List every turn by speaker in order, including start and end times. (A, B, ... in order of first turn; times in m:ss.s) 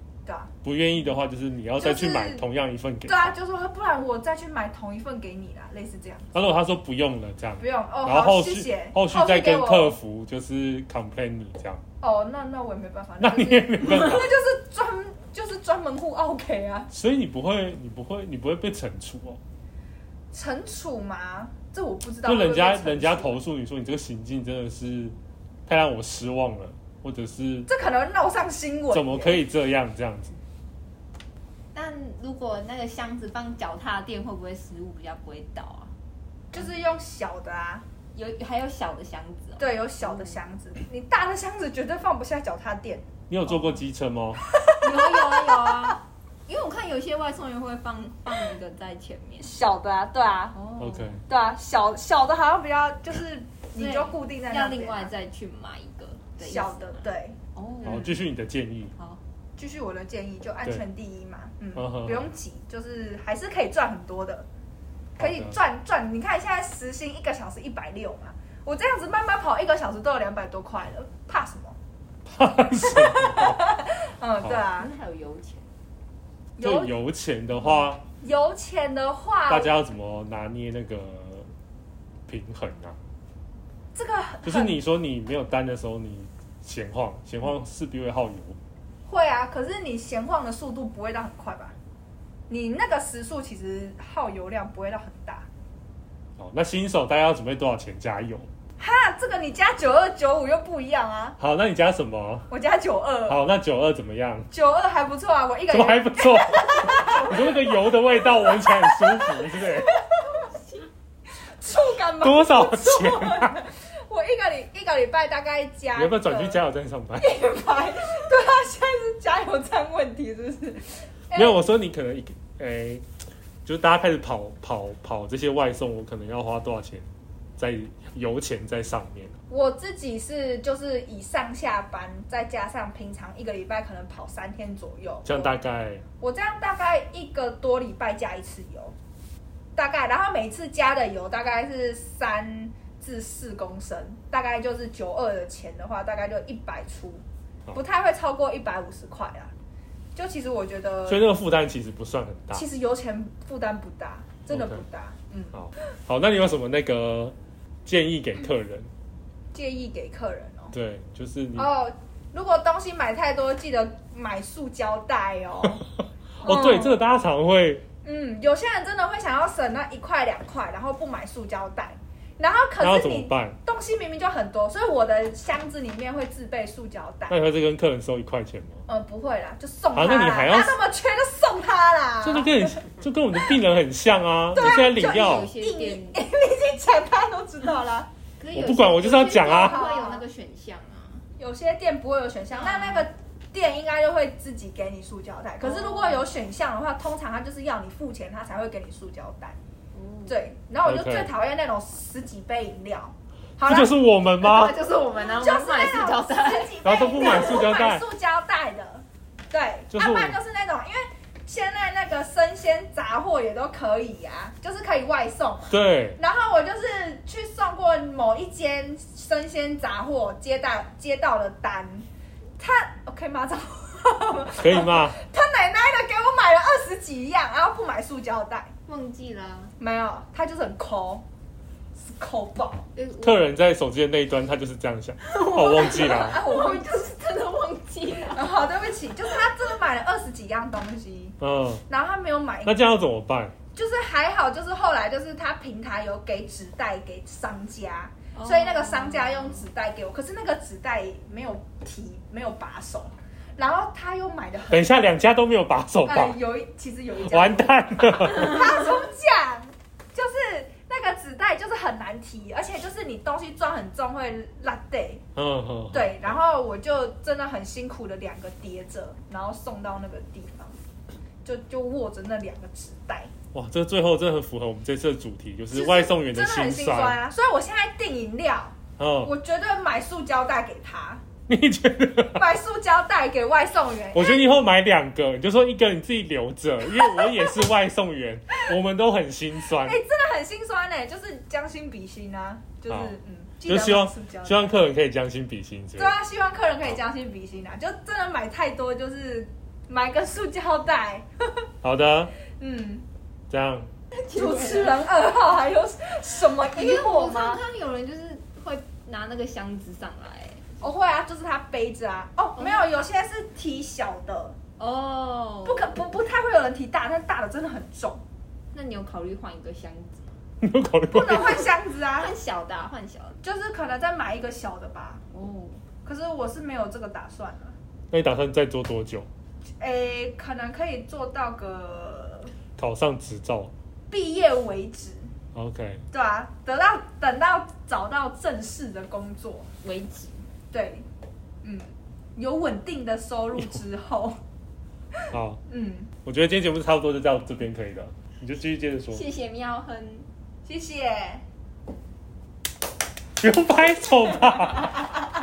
0:00.2-0:00.5 A
0:00.6-0:03.3 B
0:01.8-0:02.4 A
0:03.0-0:06.3 A
0:06.3-0:11.8 B
0:07.6-0:10.0 A
0:12.0-0:16.9 A
0:13.2-0:14.3 B
0:16.9-0:19.4 B
0:20.3-0:23.4 A
0:22.2-0:25.2 B
0:25.7-0:27.7 B
0:27.7-0:29.4 A
0:28.9-0:30.4 B
0:31.7-0:35.9 C
0:36.5-0:37.8 A
0:38.1-0:40.4 C
0:39.6-0:43.0 A
0:43.3-0:44.4 B
0:44.5-0:46.0 A
0:44.8-0:49.5 C
0:49.4-0:50.6 A
0:50.5-0:51.2 C
0:50.8-0:51.2 B
0:51.2-0:55.1 A
0:53.8-0:58.2 C
0:56.4-0:57.4 A
0:57.8-0:58.9 B
0:59.0-0:59.2 C
0:59.6-1:04.4 A
1:01.7-1:02.2 B
1:05.2-1:11.8 A
1:05.2-1:05.5 B
1:12.2-1:13.6 B
1:12.8-1:14.9 A
1:14.7-1:15.7 C
1:16.6-1:16.9 A
1:16.6-1:18.0 B
1:17.6-1:17.9 C
1:18.2-1:19.7 A
1:19.5-1:21.5 B
1:22.3-1:23.0 B
1:23.9-1:24.8 A
1:24.4-1:28.6 B
1:29.1-1:31.7 A
1:32.5-1:35.5 A
1:36.4-1:38.5 B
1:38.8-1:41.4 A
1:41.4-1:42.5 B
1:42.5-1:43.4 A
1:43.3-1:44.5 B
1:44.5-1:50.5 A
1:45.7-1:50.0 B
1:51.4-1:56.6 A
1:52.2-1:53.6 B
1:55.9-1:57.3 B
1:57.2-2:01.6 A
2:01.3-2:03.0 B
2:03.6-2:09.3 B
2:09.5-2:15.6 A
2:15.2-2:16.0 B
2:16.2-2:18.9 A
2:19.8-2:29.5 A
2:30.1-2:31.2 A
2:31.1-2:32.6 B
2:32.5-2:35.6 A
2:34.5-2:34.8 B
2:35.5-2:37.3 B
2:37.8-2:38.9 B
2:39.5-2:40.7 A
2:40.7-2:41.7 B
2:41.6-2:45.8 A
2:46.4-2:47.8 B
2:46.4-2:47.0 A
2:48.0-2:57.4 A
2:52.8-2:53.6 B
2:57.3-2:58.8 B
2:58.9-3:02.8 A
2:59.9-3:00.8 B
3:02.2-3:05.5 B
3:04.5-3:08.1 A
3:05.0-3:06.2 C
3:08.4-3:11.2 C
3:08.5-3:09.8 B
3:09.5-3:10.2 A
3:11.4-3:19.6 A
3:12.5-3:13.1 C
3:15.6-3:16.3 C
3:19.9-3:20.4 C
3:20.3-3:23.9 A
3:20.8-3:21.3 B
3:23.6-3:24.8 B
3:24.4-3:26.8 C
3:25.2-3:42.0 A
3:26.8-3:28.0 B
3:29.9-3:30.4 B
3:35.7-3:36.2 B
3:42.6-3:48.7 A
3:44.6-3:45.2 B
3:48.8-3:49.7 C
3:49.8-3:51.2 A
3:52.0-3:52.9 A
3:52.9-3:53.5 C
3:53.2-3:56.4 B
3:55.2-3:58.5 C
3:56.1-3:57.1 A
3:58.2-4:01.4 A
4:01.4-4:01.8 B
4:01.9-4:02.8 A
4:02.6-4:03.5 B
4:03.7-4:14.9 A
4:08.3-4:09.6 C
4:14.7-4:16.4 B
4:16.0-4:25.2 A
4:17.2-4:18.6 B
4:25.4-4:26.4 B
4:25.9-4:30.8 A
4:31.4-4:33.3 A
4:33.5-4:37.2 B
4:35.7-4:41.2 A
4:39.0-4:39.3 B
4:41.5-4:42.4 B
4:42.3-4:44.4 A
4:44.1-4:50.0 B
4:47.0-4:47.4 A
4:49.8-4:54.8 A
4:52.9-4:53.1 B
4:53.6-4:56.1 B
4:56.0-5:01.6 A
5:01.8-5:02.3 B
5:02.5-5:03.0 A
5:03.5-5:03.9 B
5:04.1-5:05.0 C
5:04.3-5:07.6 A
5:06.7-5:10.7 C
5:10.8-5:14.6 A
5:12.6-5:12.9 C
5:14.8-5:15.9 C
5:15.6-5:18.2 A
5:18.7-5:20.3 C
5:20.6-5:21.6 B
5:21.1-5:22.3 A
5:22.0-5:23.4 C
5:23.4-5:25.2 A
5:25.3-5:25.8 C
5:26.0-5:27.7 A
5:28.1-5:29.3 B
5:29.8-5:32.5 A
5:32.8-5:33.7 B
5:34.1-5:35.3 A
5:35.5-5:36.0 B
5:36.1-5:39.7 A
5:39.8-5:40.5 C
5:40.7-5:41.0 A
5:41.6-5:44.4 A
5:45.3-5:45.6 B
5:45.7-5:46.1 A
5:46.2-5:49.2 B
5:49.1-5:50.3 C
5:50.6-5:51.4 A
5:53.4-5:55.1 B